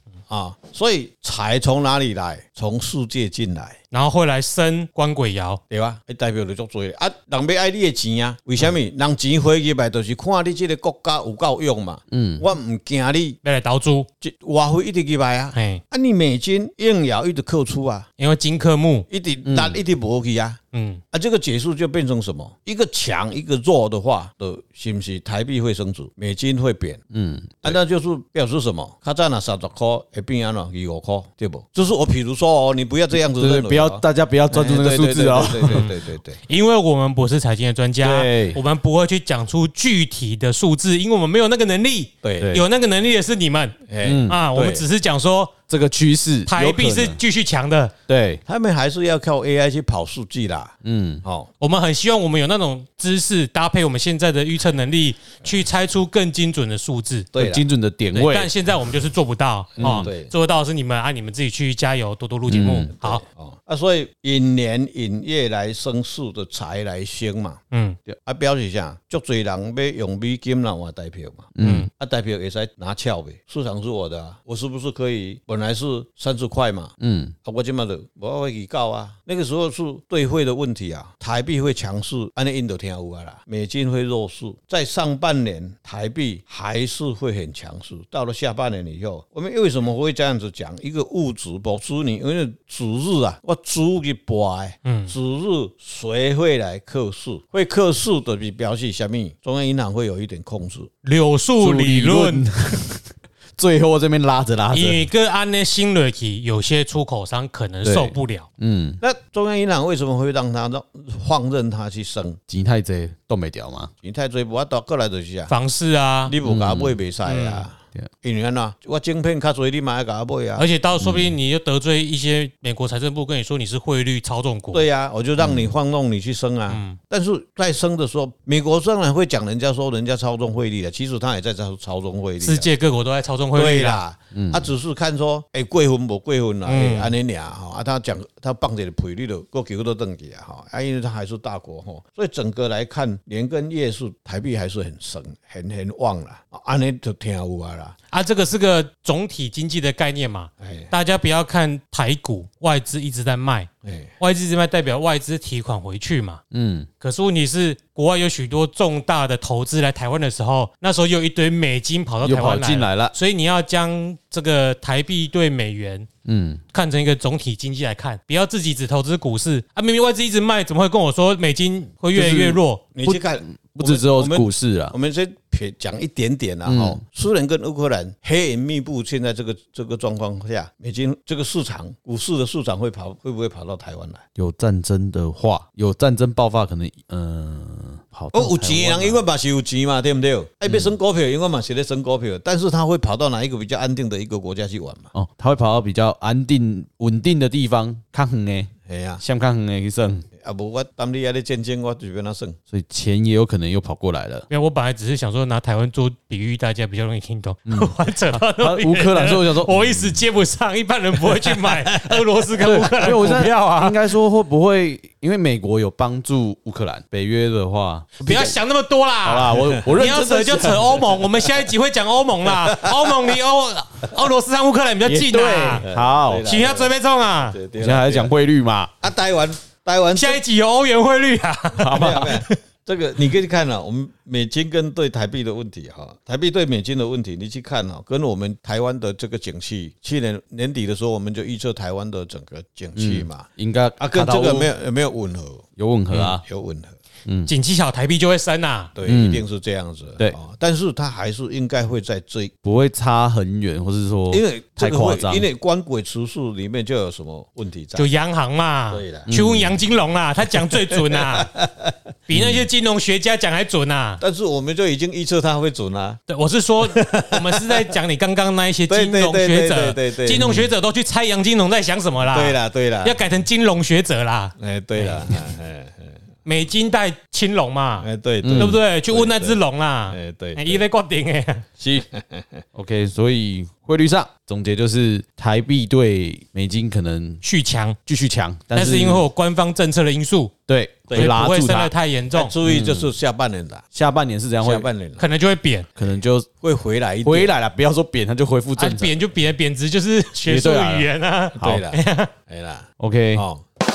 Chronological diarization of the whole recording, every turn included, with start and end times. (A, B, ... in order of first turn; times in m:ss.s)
0:00.3-0:03.8 A
0:03.9-0:05.6 B
0:05.7-0:13.4 A
0:12.1-0:12.4 C
0:13.4-0:14.1 B
0:14.2-0:18.1 A
0:15.6-0:15.8 B
0:18.2-0:19.1 B
0:19.1-0:20.6 A
0:19.4-0:19.8 C
0:20.7-0:21.0 B
0:21.1-0:27.0 A
0:27.1-0:27.8 C
0:27.6-0:36.4 A
0:33.4-0:35.9 C
0:36.5-0:45.5 B
0:38.0-0:38.6 C
0:42.2-0:42.6 A
0:43.9-0:44.8 A
0:44.0-0:44.4 C
0:45.7-0:47.2 C
0:46.5-0:47.9 B
0:48.1-0:48.4 C
0:48.5-0:51.5 A
0:50.8-0:51.2 C
0:51.6-0:57.3 B
0:57.3-0:57.6 A
0:57.4-0:58.5 C
0:58.1-1:03.2 B
0:59.8-1:00.1 C
0:59.8-1:00.3 A
1:02.5-1:02.9 C
1:03.0-1:07.6 A
1:07.7-1:08.0 B
1:08.2-1:16.9 A
1:11.6-1:11.9 C
1:11.6-1:11.9 B
1:17.0-1:17.4 C
1:17.4-1:40.9 A
1:34.8-1:35.1 B
1:41.0-1:42.5 B
1:41.6-1:45.0 C
1:44.7-1:48.5 B
1:47.8-1:49.0 C
1:49.0-1:52.4 A
1:52.5-1:53.9 C
1:54.0-1:55.5 A
1:55.5-1:56.4 B
1:56.3-2:00.7 A
1:56.4-1:57.0 C
1:57.2-1:57.7 B
2:00.6-2:04.8 B
2:01.0-2:01.4 C
2:04.7-2:12.7 A
2:05.4-2:05.7 C
2:06.7-2:07.0 B
2:12.4-2:14.0 B
2:13.5-2:28.0 A
2:14.3-2:14.7 C
2:16.7-2:17.1 B
2:28.1-2:36.4 B
2:30.6-2:30.9 A
2:33.8-2:34.1 A
2:36.5-2:36.9 C
2:37.0-2:46.1 B
2:42.2-2:43.1 C
2:46.2-2:46.6 C
2:46.7-2:52.9 B
2:52.2-2:55.0 C
2:52.9-3:04.2 A
2:56.7-2:57.0 C
3:04.4-3:09.2 C
3:08.3-3:15.1 A
3:15.1-3:20.3 C
3:18.9-3:19.2 A
3:20.4-3:22.6 A
3:22.7-3:24.5 C
3:24.5-3:34.1 B
3:27.7-3:30.2 C
3:31.7-3:32.2 A
3:32.6-3:38.5 C
3:38.2-3:45.9 B
3:39.2-3:41.2 C
3:42.5-3:43.4 A
3:45.0-3:46.5 C
3:45.8-3:48.3 A
3:46.4-3:47.6 B
3:47.8-3:48.9 C
3:49.0-3:50.4 A
3:50.2-3:52.6 B
3:51.8-3:52.4 C
3:51.9-4:03.5 A
4:03.0-4:04.7 C
4:04.0-4:07.0 A
4:05.8-4:06.4 C
4:07.3-4:07.5 C
4:07.5-4:08.9 B
4:09.0-4:12.5 A
4:09.1-4:09.4 C
4:12.6-4:15.5 C
4:14.3-4:18.1 A
4:18.0-4:21.5 B
4:18.9-4:19.3 A
4:19.3-4:19.8 C
4:20.7-4:22.0 A
4:22.3-4:24.2 B
4:22.3-4:22.7 C
4:24.2-4:26.2 A
4:26.3-4:35.3 B
4:26.8-4:28.0 A
4:28.9-4:30.6 A
4:30.4-4:30.7 C
4:32.3-4:33.2 A
4:34.6-4:36.1 A
4:36.4-4:41.7 B
4:38.0-4:40.8 A
4:38.4-4:38.8 C
4:41.8-4:42.6 A
4:42.7-4:47.4 C
4:47.4-4:48.0 B
4:48.1-4:49.2 C
4:48.7-4:50.5 B
4:50.7-4:51.9 C
4:51.1-4:51.4 A
4:51.1-4:52.6 B
4:52.3-4:53.8 A
4:52.6-4:53.1 C
4:53.9-4:54.9 C
4:54.6-4:55.3 A
4:55.2-4:55.9 B
4:56.0-4:56.5 C
4:56.6-4:57.5 A
4:57.2-4:59.2 C
4:58.8-5:02.3 B
5:00.5-5:01.1 C
5:01.6-5:03.6 A
5:03.0-5:03.4 C